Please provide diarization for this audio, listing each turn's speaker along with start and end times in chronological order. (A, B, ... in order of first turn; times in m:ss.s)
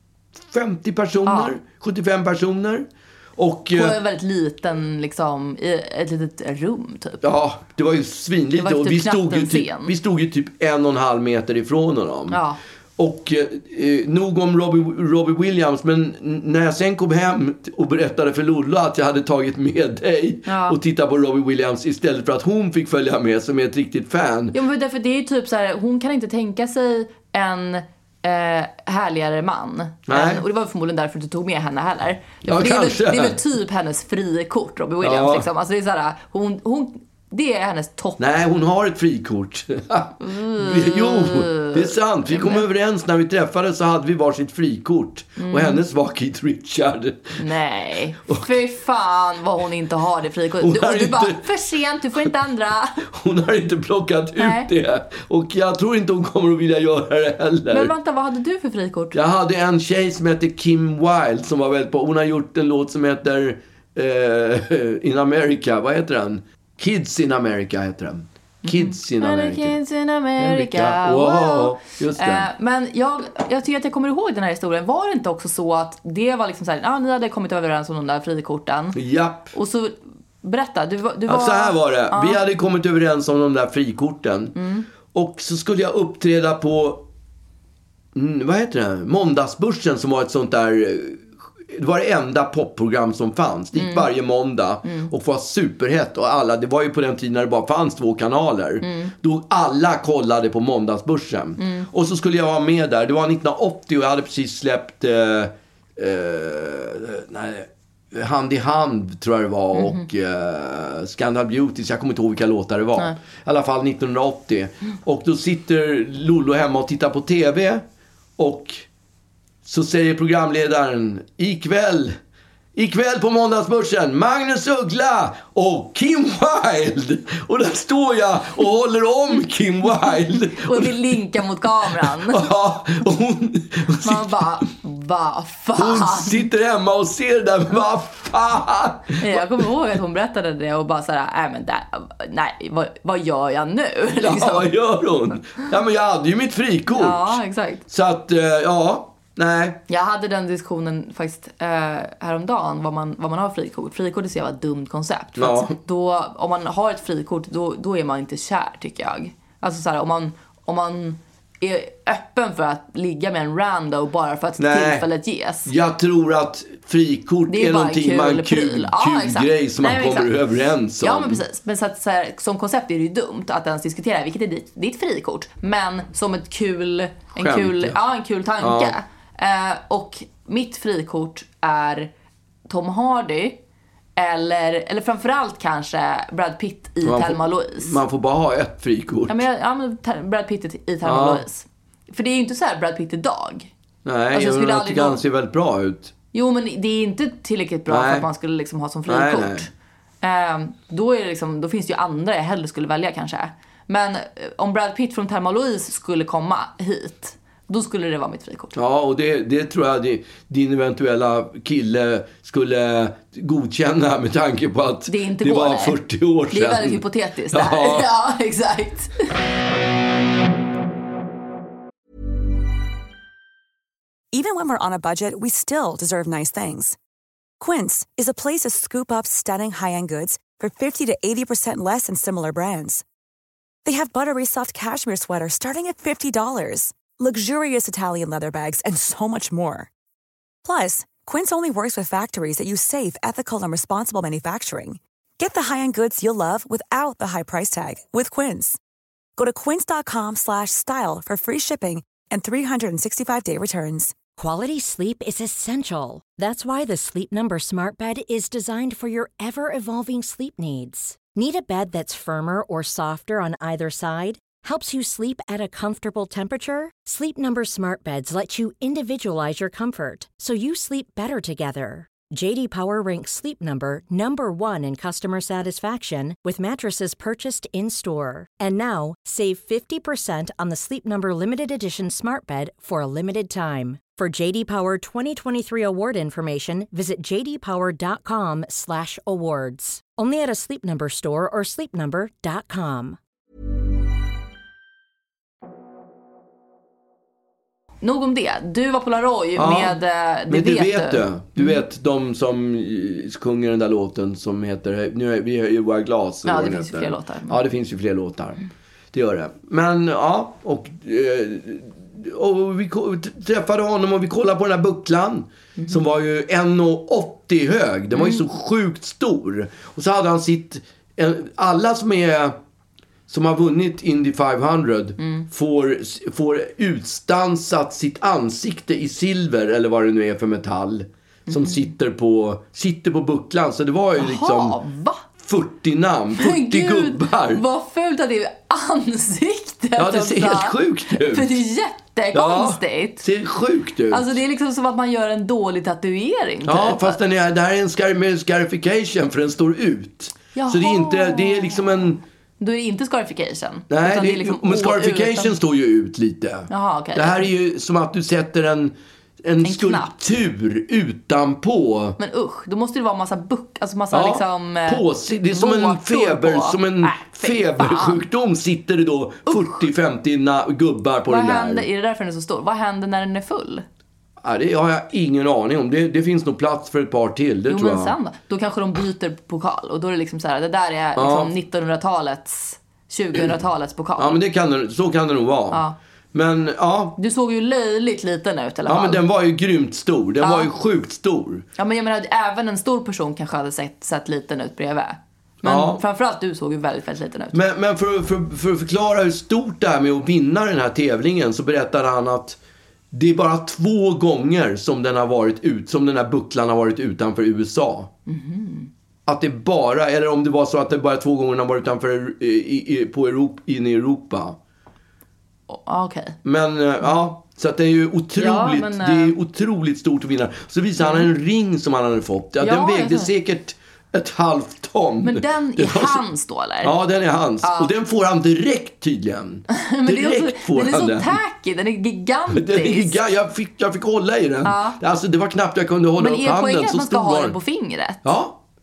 0:00.4-0:04.0 A
0:01.3-0:01.5 B
0:03.7-0:07.2 B
0:07.2-0:12.4 A
0:08.6-0:09.9 B
0:12.3-0:12.6 B
0:13.0-0:24.6 A
0:20.5-0:20.8 B
0:24.5-0:38.2 B
0:30.1-0:30.4 A
0:32.4-0:33.4 A
0:35.0-0:35.5 A
0:38.2-0:47.4 A
0:40.2-0:42.6 B
0:45.4-0:45.8 B
0:47.4-0:53.0 B
0:50.6-0:51.5 A
0:53.0-0:57.9 A
0:54.4-0:54.7 B
0:57.7-0:59.2 B
0:59.1-1:09.8 A
1:08.6-1:19.0 B
1:10.4-1:12.5 A
1:19.0-1:19.5 A
1:19.5-1:22.4 B
1:21.3-1:24.6 A
1:24.6-1:24.9 B
1:25.1-1:27.0 A
1:28.2-1:57.8 A
1:33.8-1:34.1 B
1:34.8-1:35.1 B
1:38.8-1:39.1 B
1:41.6-1:41.9 B
1:49.7-1:50.0 B
1:58.4-1:58.9 A
1:59.6-2:02.2 A
2:02.8-2:11.2 A
2:10.5-2:12.4 B
2:11.8-2:14.7 A
2:14.0-2:16.5 B
2:15.8-2:19.7 A
2:19.2-2:24.7 B
2:24.2-2:29.8 A
2:26.9-2:27.8 B
2:29.9-2:45.7 B
2:35.4-2:35.8 A
2:44.6-2:45.1 A
2:45.6-2:51.4 A
2:47.5-2:50.3 B
2:51.0-3:02.1 B
2:57.4-2:58.0 A
2:58.6-2:59.0 A
3:02.7-3:03.6 B
3:04.2-3:08.0 B
3:07.0-3:09.4 A
3:09.3-3:13.7 B
3:11.0-3:11.4 A
3:14.0-3:16.1 A
3:14.3-3:15.2 B
3:16.3-3:19.7 B
3:17.9-3:18.3 A
3:19.1-3:19.7 A
3:20.2-3:28.8 B
3:28.8-3:38.1 A
3:35.1-3:36.0 B
3:36.5-3:39.2 B
3:44.3-3:47.0 C
3:47.6-3:53.0 C
3:53.8-3:59.9 C
4:00.6-4:08.8 C
4:09.4-4:14.2 C
4:14.4-4:53.2 D
4:58.0-5:01.8 B
4:59.6-5:08.6 A
5:06.5-5:07.6 B
5:09.1-5:22.6 A
5:18.2-5:18.4 B
5:23.3-5:34.8 A
5:25.2-5:25.4 B
5:31.5-5:31.8 B
5:34.2-5:35.2 B
5:35.4-5:37.6 A
5:36.4-5:43.2 B
5:40.0-5:41.6 A
5:42.3-5:44.4 A
5:44.1-5:47.2 B
5:46.6-5:52.2 A
5:50.6-5:51.8 B
5:52.6-5:55.6 B
5:53.9-6:02.2 A
5:56.7-5:57.5 B
5:59.6-6:00.1 B
6:02.2-6:08.2 B
6:04.1-6:11.9 A
6:09.5-6:09.8 B
6:11.3-6:13.8 B
6:14.4-6:18.1 A
6:17.7-6:24.4 B
6:21.2-6:21.5 A
6:24.2-6:25.8 A
6:25.7-6:26.0 B
6:26.3-6:27.2 A
6:27.2-6:29.2 B
6:28.9-6:31.7 A
6:30.4-6:30.7 B
6:31.8-6:37.6 B
6:35.6-6:36.0 A
6:37.5-6:42.6 A
6:43.1-6:48.1 A
6:48.3-6:48.9 B
6:49.3-6:54.6 A
6:55.7-6:56.4 B
6:56.4-7:06.2 A
6:58.4-6:59.4 B
7:01.0-7:01.3 B
7:02.6-7:03.3 B
7:05.2-7:07.0 B
7:06.8-7:11.4 A
7:07.6-7:07.9 B
7:09.7-7:13.2 B
7:12.5-7:17.6 A
7:14.6-7:15.0 B
7:16.2-7:18.3 B
7:18.2-7:18.6 A